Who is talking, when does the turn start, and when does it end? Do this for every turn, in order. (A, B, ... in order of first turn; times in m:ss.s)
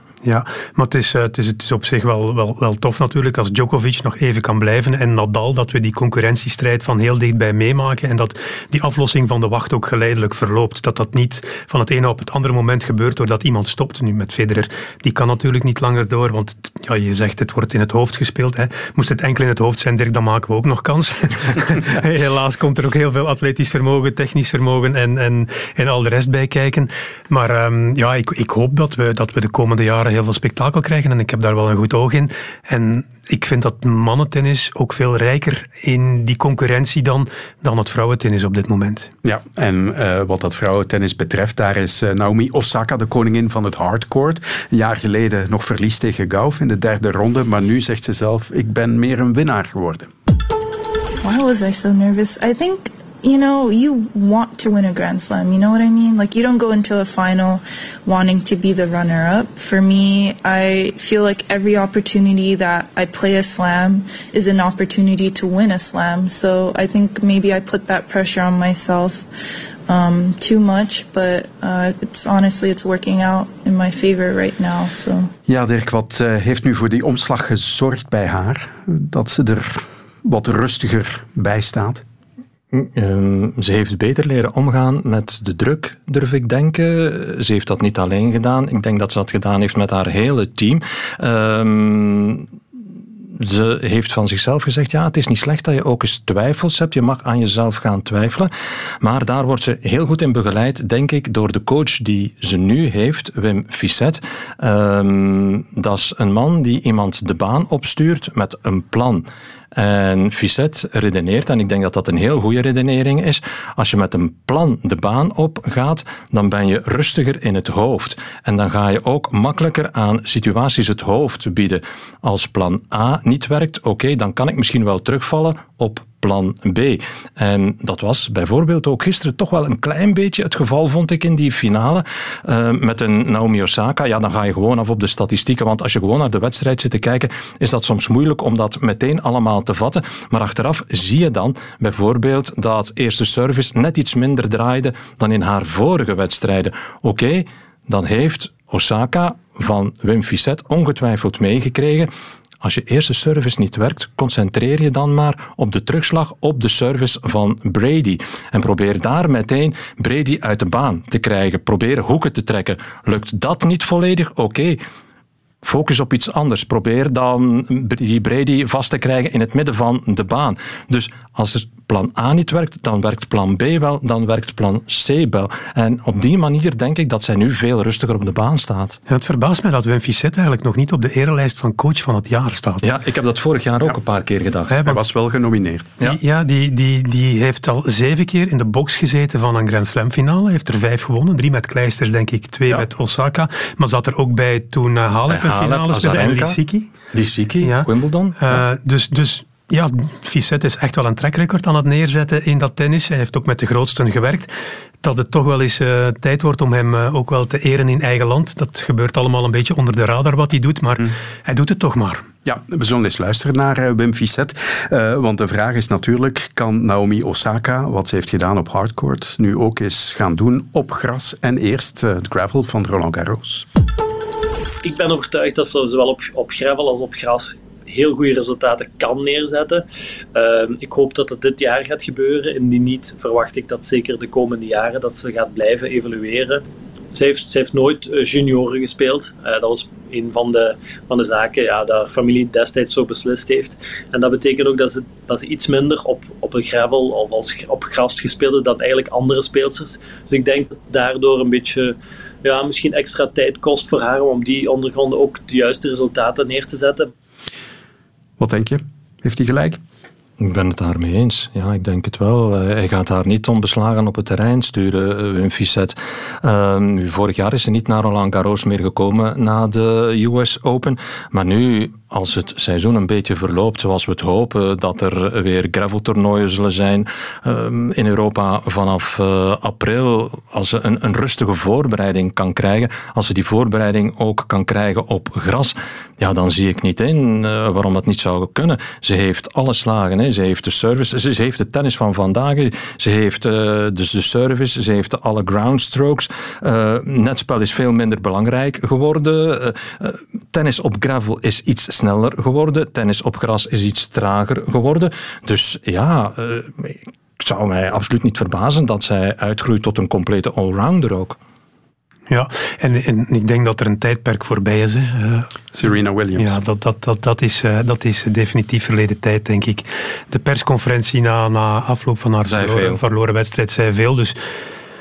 0:00.2-0:39.1 A
0:39.2-0:50.1 B
0:51.2-1:09.3 C
1:09.9-1:15.3 C
1:15.5-1:22.0 B
1:22.7-1:32.5 D
1:33.4-1:38.5 D
1:39.0-2:32.1 D
2:32.6-2:44.8 D
2:45.6-2:59.0 D
2:59.1-3:02.9 A
3:02.8-3:04.7 D
3:04.7-3:05.0 A
3:04.8-3:05.9 B
3:06.0-3:16.9 A
3:15.3-3:16.6 D
3:17.1-3:18.6 D
3:17.6-3:17.9 A
3:18.4-3:24.5 A
3:25.0-3:32.2 A
3:32.4-3:43.7 B
3:44.8-4:17.1 E
4:18.4-4:19.8 B
4:20.4-5:11.4 D
5:12.3-5:15.5 A
5:15.7-5:16.6 B
5:16.4-5:24.4 A
5:22.4-5:23.0 D